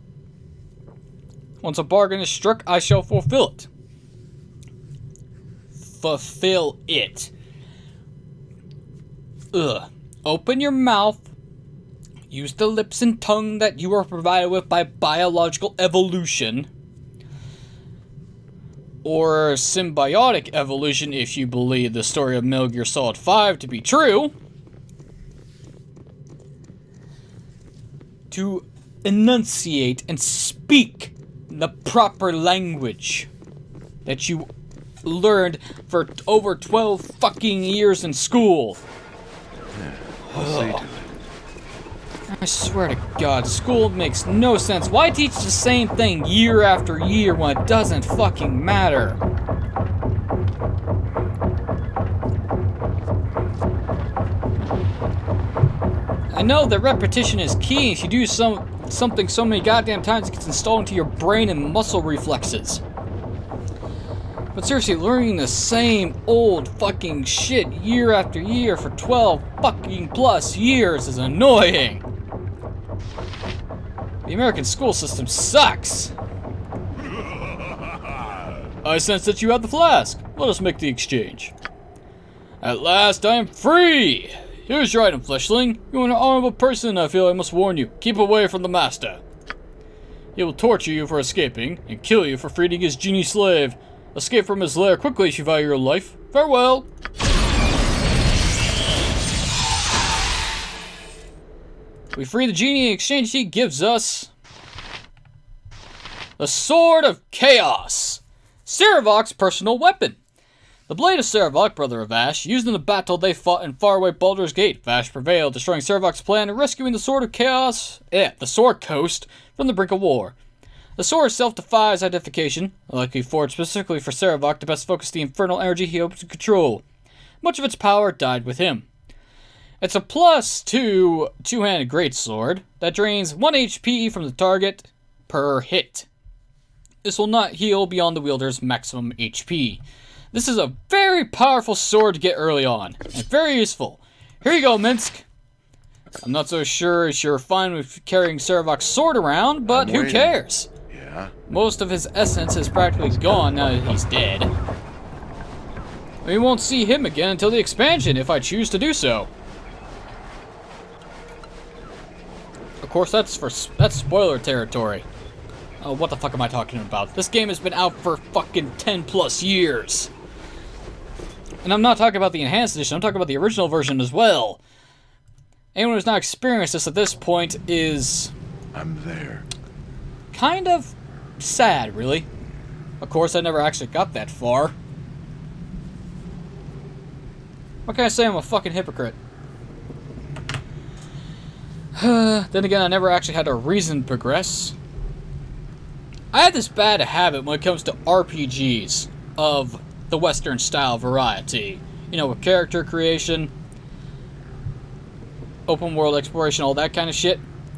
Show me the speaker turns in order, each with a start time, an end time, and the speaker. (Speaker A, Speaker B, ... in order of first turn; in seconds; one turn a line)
Speaker A: 1.6-3.7
Speaker A: 5.8-7.3
Speaker A: 9.5-11.3
Speaker A: 12.3-16.7
Speaker A: 19.0-24.3
Speaker A: 28.3-33.3
Speaker A: 34.0-34.5
Speaker A: 35.0-38.8
Speaker B: 39.7-41.1
Speaker A: 40.2-40.9
Speaker A: 42.3-49.2
Speaker A: 56.3-62.8
Speaker A: 64.5-72.0
Speaker A: 74.2-76.1
Speaker A: 78.8-81.5
Speaker A: 82.6-89.2
Speaker A: 90.3-96.9
Speaker A: 102.1-104.3
Speaker A: 106.4-110.2
Speaker A: 110.9-120.3
Speaker A: 121.0-126.8
Speaker A: 127.4-128.9
Speaker A: 129.8-136.1
Speaker A: 137.0-145.2
Speaker A: 146.2-150.7
Speaker B: 149.7-151.3
Speaker A: 151.5-154.5
Speaker B: 153.0-153.6
Speaker A: 156.2-159.3
Speaker A: 162.8-165.1
Speaker A: 165.8-170.1
Speaker A: 171.6-174.6
Speaker A: 175.7-178.3
Speaker B: 178.7-179.4
Speaker A: 180.3-182.3
Speaker A: 183.0-184.7
Speaker A: 187.8-189.2
Speaker A: 191.9-194.7
Speaker A: 196.3-203.5
Speaker A: 205.7-207.4